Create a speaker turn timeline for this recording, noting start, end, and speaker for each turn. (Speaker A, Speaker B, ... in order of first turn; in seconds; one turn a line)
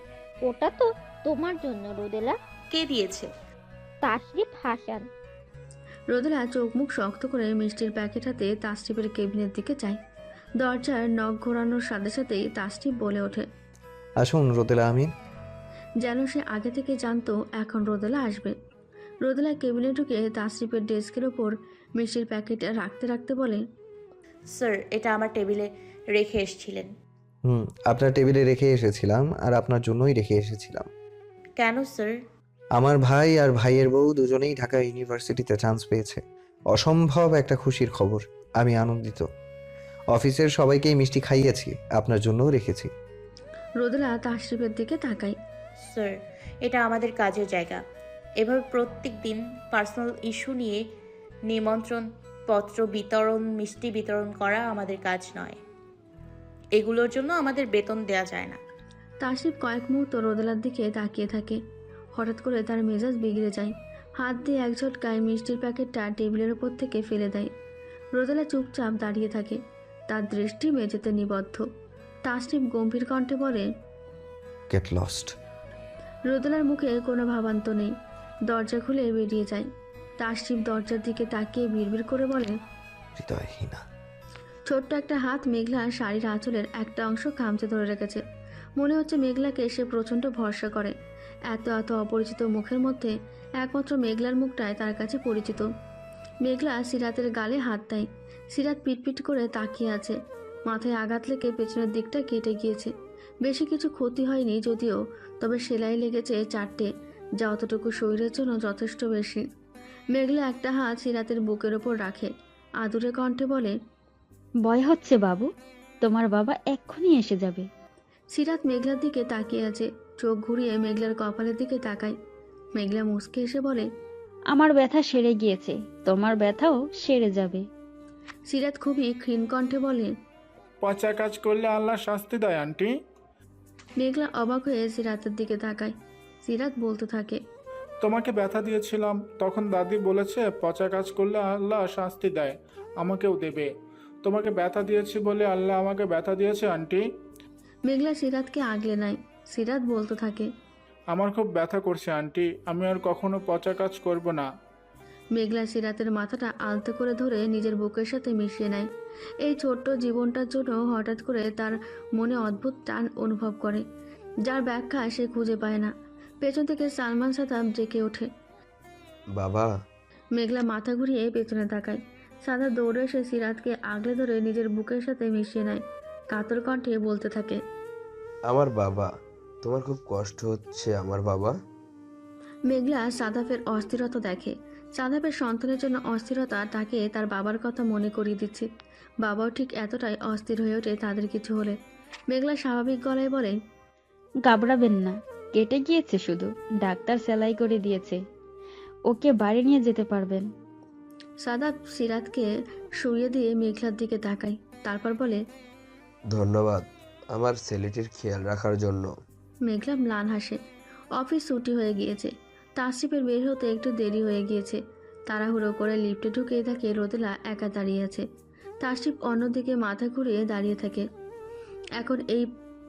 Speaker A: 0.4-2.4
Speaker B: 2.7-3.3
Speaker A: 4.0-5.0
Speaker C: 6.1-10.0
Speaker C: 10.6-13.5
Speaker D: 14.2-15.1
Speaker C: 16.0-18.5
Speaker C: 19.2-23.6
Speaker B: 24.6-26.9
Speaker D: 27.5-30.9
Speaker B: 31.6-32.1
Speaker D: 32.8-39.3
Speaker D: 40.1-42.9
Speaker C: 43.8-45.4
Speaker B: 45.9-47.8
Speaker B: 48.4-50.8
Speaker B: 51.5-55.6
Speaker B: 56.8-58.6
Speaker C: 59.2-61.6
Speaker C: 62.2-67.5
Speaker C: 68.2-69.6
Speaker C: 70.1-71.6
Speaker C: 72.2-73.7
Speaker D: 74.7-75.3
Speaker C: 76.3-77.9
Speaker C: 78.5-79.7
Speaker C: 80.2-82.5
Speaker D: 83.2-83.8
Speaker C: 84.7-88.2
Speaker C: 88.8-90.9
Speaker C: 91.5-95.7
Speaker C: 96.4-100.2
Speaker C: 100.7-102.9
Speaker C: 103.5-106.9
Speaker C: 107.4-109.4
Speaker C: 110.1-112.3
Speaker C: 112.8-113.7
Speaker E: 114.7-115.5
Speaker E: 116.0-117.7
Speaker C: 118.3-122.2
Speaker C: 122.8-123.9
Speaker E: 124.5-127.7
Speaker C: 128.5-130.1
Speaker F: 130.8-132.9
Speaker C: 134.0-137.4
Speaker F: 138.0-143.7
Speaker F: 144.2-147.0
Speaker C: 147.9-150.5
Speaker F: 151.1-154.5
Speaker C: 155.3-158.9
Speaker C: 159.4-163.8
Speaker C: 164.5-165.9
Speaker C: 166.4-168.3
Speaker G: 169.3-169.7
Speaker C: 170.4-175.8
Speaker C: 176.3-177.6
Speaker G: 178.5-179.1
Speaker G: 179.6-181.5
Speaker C: 182.7-188.7
Speaker C: 189.2-191.8
Speaker C: 192.3-193.5
Speaker E: 194.5-198.2
Speaker E: 199.1-200.4
Speaker C: 201.4-202.5
Speaker C: 203.0-205.4
Speaker G: 206.3-209.1
Speaker C: 209.7-210.6
Speaker C: 211.2-218.2
Speaker C: 218.8-221.0
Speaker C: 222.0-222.5